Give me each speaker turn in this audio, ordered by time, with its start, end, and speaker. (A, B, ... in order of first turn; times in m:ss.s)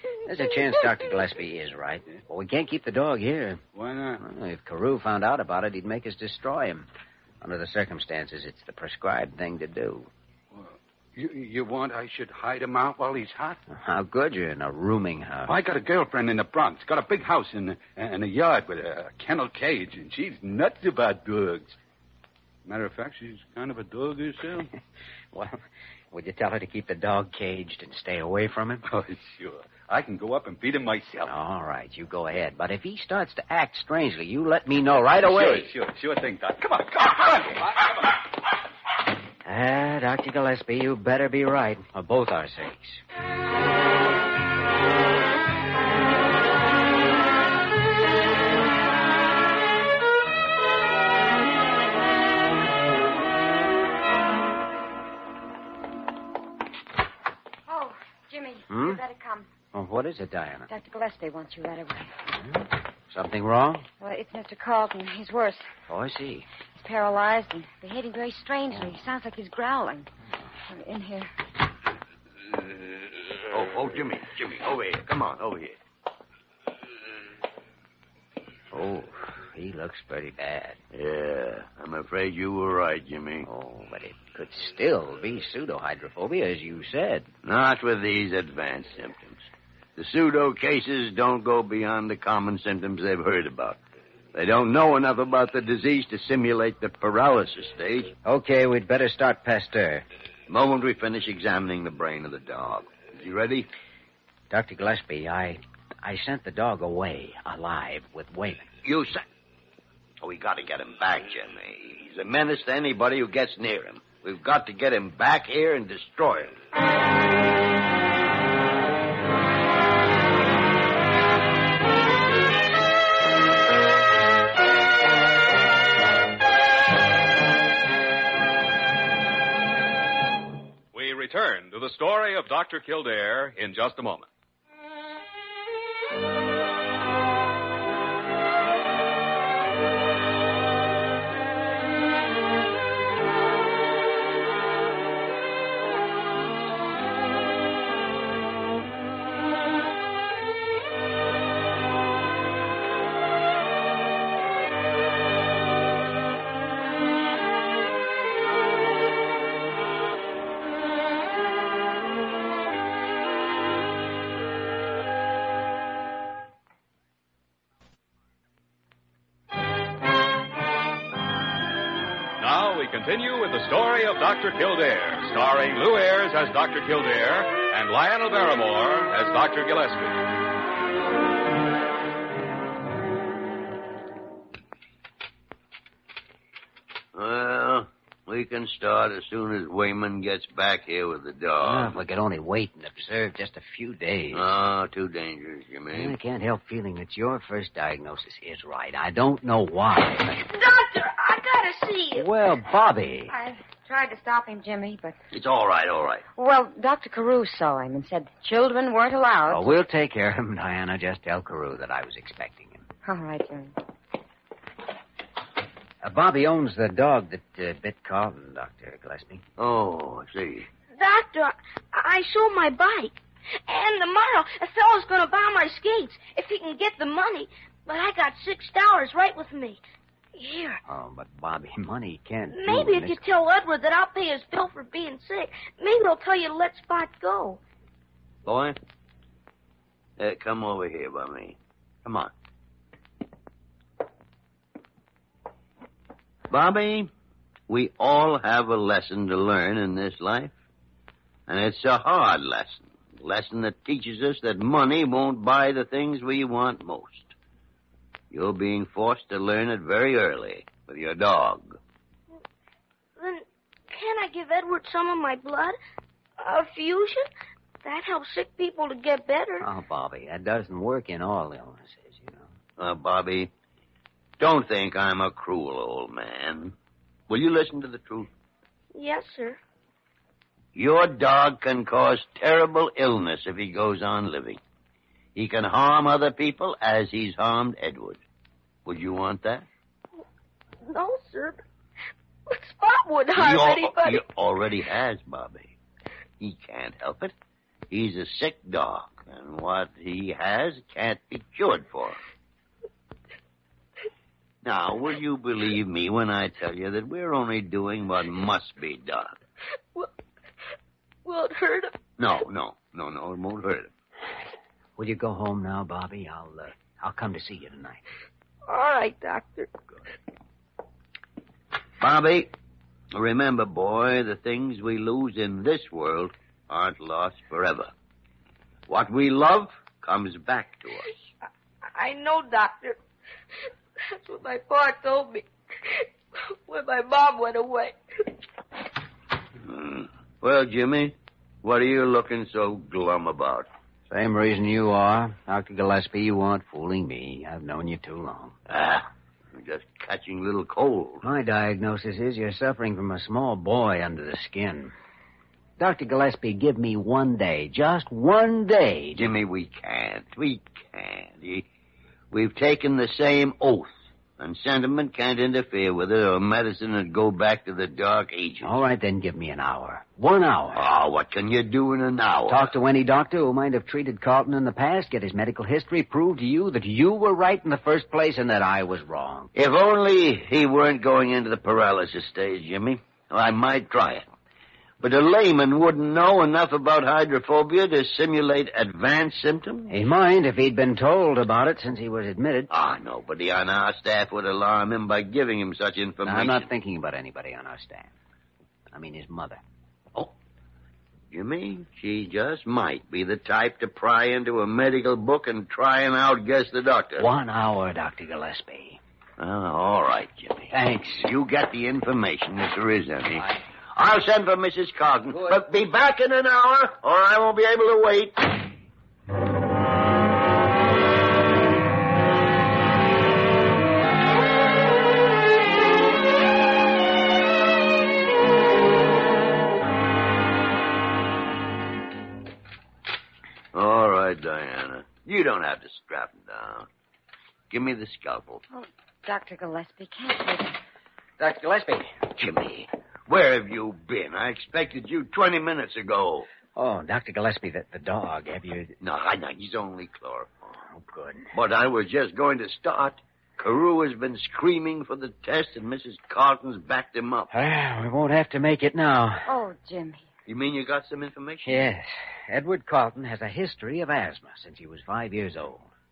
0:00.2-0:03.6 A
0:03.8-0:04.2 B
0:04.2-0:06.9 A
0:07.4-0:10.1 A
0:10.5-0:13.6 B
0:13.7-0:15.5 A
0:15.4-0:21.8 B
0:22.6-0:24.7 B
0:25.3-0:25.6 A
0:26.1-0:28.8 A
0:28.9-0:31.3 B
0:31.2-0:35.7 A
0:35.0-0:38.1 B
0:39.4-0:43.0 A
0:57.7-0:59.5 C
0:58.7-0:59.0 A
0:59.7-1:00.7 A
1:00.7-1:02.1 C
1:02.5-1:03.9 A
1:04.0-1:05.7 C
1:05.9-1:06.5 A
1:06.7-1:10.1 C
1:10.7-1:11.3 C
1:13.5-1:15.8 D
1:18.7-1:20.8 A
1:20.9-1:23.5 D
1:23.4-1:27.3 A
1:27.4-1:29.4 D
1:30.0-1:33.8 D
1:34.3-1:38.1 D
1:38.2-1:40.0 A
1:40.5-1:43.7 D
1:44.5-1:48.7 A
1:48.8-1:49.2 D
1:50.2-1:56.5 D
2:10.9-2:14.3 E
2:52.4-3:00.2 E
3:07.1-3:12.0 D
3:11.6-3:14.5 A
3:14.3-3:16.1 D
3:15.9-3:20.4 A
3:20.4-3:22.3 F
3:22.1-3:23.3 A
3:23.3-3:25.2 C
3:25.3-3:26.2 D
3:26.4-3:29.7 C
3:29.5-3:32.8 A
3:33.0-3:33.8 C
3:36.0-3:39.4 A
3:39.6-3:40.7 D
3:40.9-3:49.8 F
3:50.4-3:50.8 F
3:50.8-3:53.2 A
3:52.5-3:57.6 F
3:58.4-3:58.8 D
4:00.2-4:02.3 D
4:06.5-4:07.1 D
4:07.7-4:10.5 D
4:11.5-4:17.3 D
4:18.3-4:21.8 D
4:23.2-4:25.8 F
4:26.4-4:27.3 F
4:27.8-4:29.7 F
4:29.6-4:32.5 A
4:32.8-4:33.5 D
4:34.4-4:36.7 D
4:37.3-4:38.3 D
4:38.9-4:39.6 F
4:40.7-4:44.6 D
4:45.3-4:48.2 D
4:48.8-4:49.6 D
4:50.8-4:51.6 F
4:52.5-4:54.2 F
4:53.4-4:55.7 D
4:56.4-4:57.3 D
4:57.9-5:02.2 D
5:04.6-5:09.4 D
5:11.2-5:12.0 F
5:12.2-5:13.9 D
5:15.0-5:18.0 A
5:18.7-5:19.7 F
5:22.0-5:22.5 D
5:23.1-5:27.9 D
5:28.9-5:31.1 D
5:31.9-5:33.0 F
5:34.0-5:38.0 F
5:39.6-5:43.7 D
5:44.1-5:48.5 A
5:48.7-5:51.2 D
5:51.2-5:54.9 A
5:55.8-5:59.3 A
5:59.1-6:01.6 D
6:02.3-6:08.8 D
6:08.6-6:10.9 A
6:10.7-6:12.6 D
6:12.5-6:19.5 A
6:19.5-6:24.3 D
6:25.0-6:29.9 D
6:29.9-6:32.7 A
6:32.7-6:36.7 D
6:36.2-6:38.1 A
6:38.9-6:39.6 A
6:41.3-6:47.3 D
6:47.2-6:49.0 A
6:49.4-6:58.6 D
6:50.7-6:51.3 A
6:55.3-6:55.6 A
7:13.7-7:16.9 D
7:17.7-7:18.6 D
7:18.7-7:20.8 C
7:21.4-7:22.1 A
7:22.4-7:26.5 D
7:26.7-7:28.9 A
7:29.0-7:30.7 D
7:30.9-7:31.5 A
7:31.5-7:37.5 D
7:37.5-7:39.4 A
7:39.4-7:40.3 C
7:40.5-7:41.8 D
7:41.6-7:45.9 A